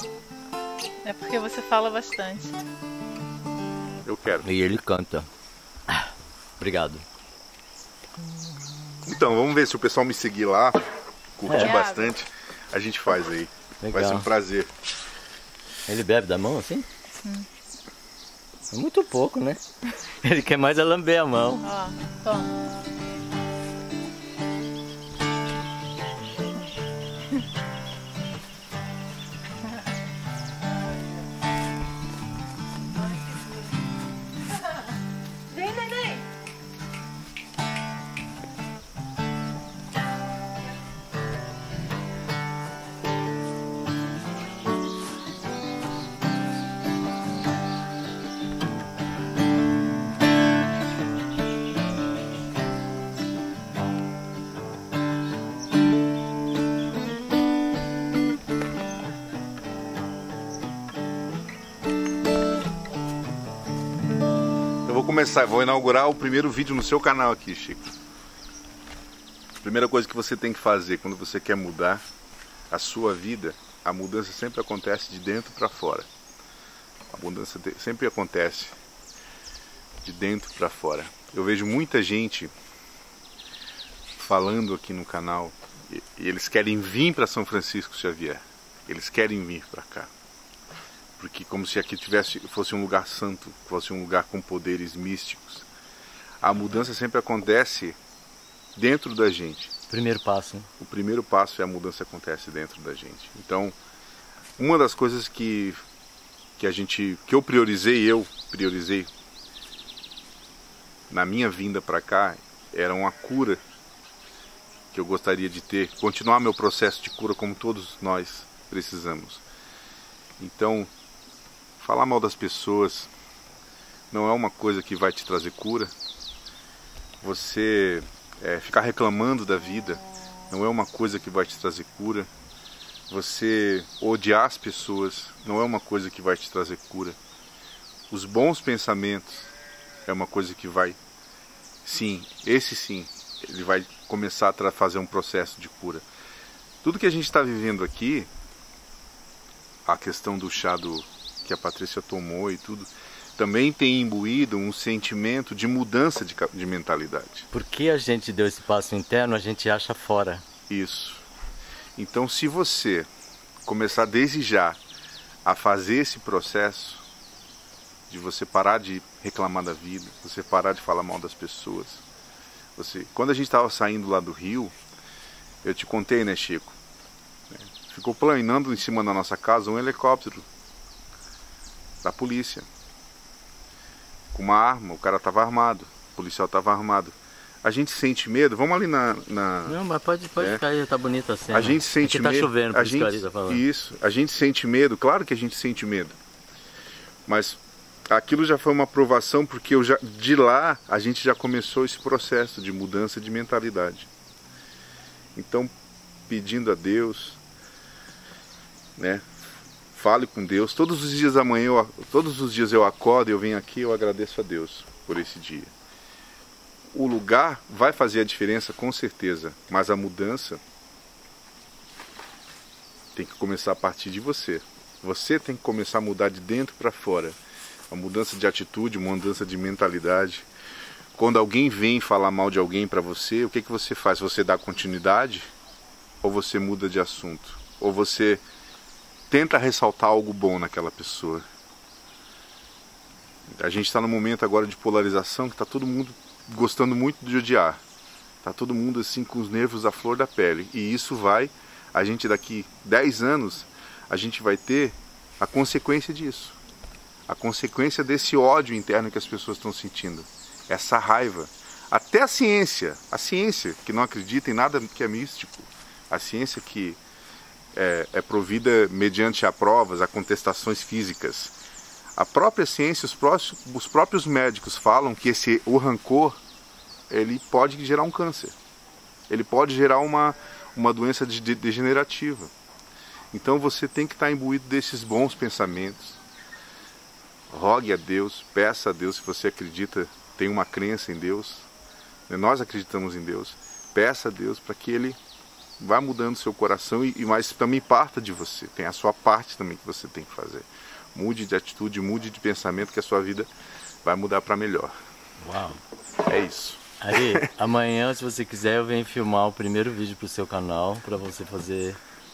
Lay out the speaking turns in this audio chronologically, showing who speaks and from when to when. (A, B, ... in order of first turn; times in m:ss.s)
0:01.0-0:02.6 A
0:04.0-0:04.5 B
0:04.4-0:05.3 C
0:05.9-0:07.0 C
0:09.0-0:10.8 B
0:11.4-0:14.7 B
0:11.5-0:11.7 C
0:11.5-0:12.1 A
0:13.8-0:14.3 C
0:15.9-0:16.8 C
0:18.7-0:19.6 C
0:20.2-0:21.6 C
0:21.6-0:22.5 A
0:33.0-0:33.6 A
0:35.5-0:36.2 A
1:04.8-1:07.9 B
1:09.6-1:12.0 B
1:12.7-1:16.1 B
1:17.1-1:18.7 B
1:20.0-1:22.5 B
1:24.2-1:30.1 B
1:31.2-1:35.6 B
1:36.4-1:38.0 B
1:38.7-1:39.7 B
1:39.9-1:40.7 C
1:40.8-1:43.7 B
1:44.6-1:45.8 B
1:46.6-1:49.1 B
1:51.1-1:53.6 B
1:54.9-1:59.4 B
2:00.4-2:00.9 B
2:01.8-2:03.1 B
2:04.1-2:05.9 B
2:07.2-2:12.3 B
2:13.1-2:17.2 B
2:18.1-2:19.5 B
2:20.0-2:21.0 B
2:21.8-2:26.0 B
2:26.8-2:28.3 B
2:29.8-2:37.5 B
2:37.5-2:40.4 C
2:40.7-2:41.2 B
2:42.0-2:43.1 B
2:43.6-2:44.8 B
2:45.4-2:47.0 B
2:48.1-2:52.0 B
2:52.8-2:54.7 B
2:55.6-2:56.8 B
2:57.5-3:00.4 B
3:02.0-3:02.7 B
3:04.3-3:09.8 B
3:09.7-3:13.6 C
3:11.5-3:16.2 B
3:17.2-3:17.6 B
3:18.1-3:24.1 B
3:25.3-3:25.7 B
3:26.3-3:27.4 B
3:29.0-3:29.2 B
3:29.9-3:35.7 B
3:36.9-3:40.6 B
3:43.1-3:47.4 B
3:47.9-3:50.4 B
3:51.1-3:55.5 B
3:56.2-3:58.4 B
3:59.3-4:01.4 B
4:03.5-4:07.8 B
4:08.4-4:16.6 B
4:17.3-4:27.0 B
4:27.7-4:31.5 B
4:32.2-4:36.4 B
4:37.1-4:38.5 B
4:39.3-4:42.5 B
4:43.3-4:46.2 B
4:47.5-4:51.7 B
4:52.3-4:55.2 B
4:55.8-5:03.5 B
5:04.0-5:04.9 B
5:05.4-5:05.8 C
5:06.2-5:07.5 B
5:07.0-5:12.0 C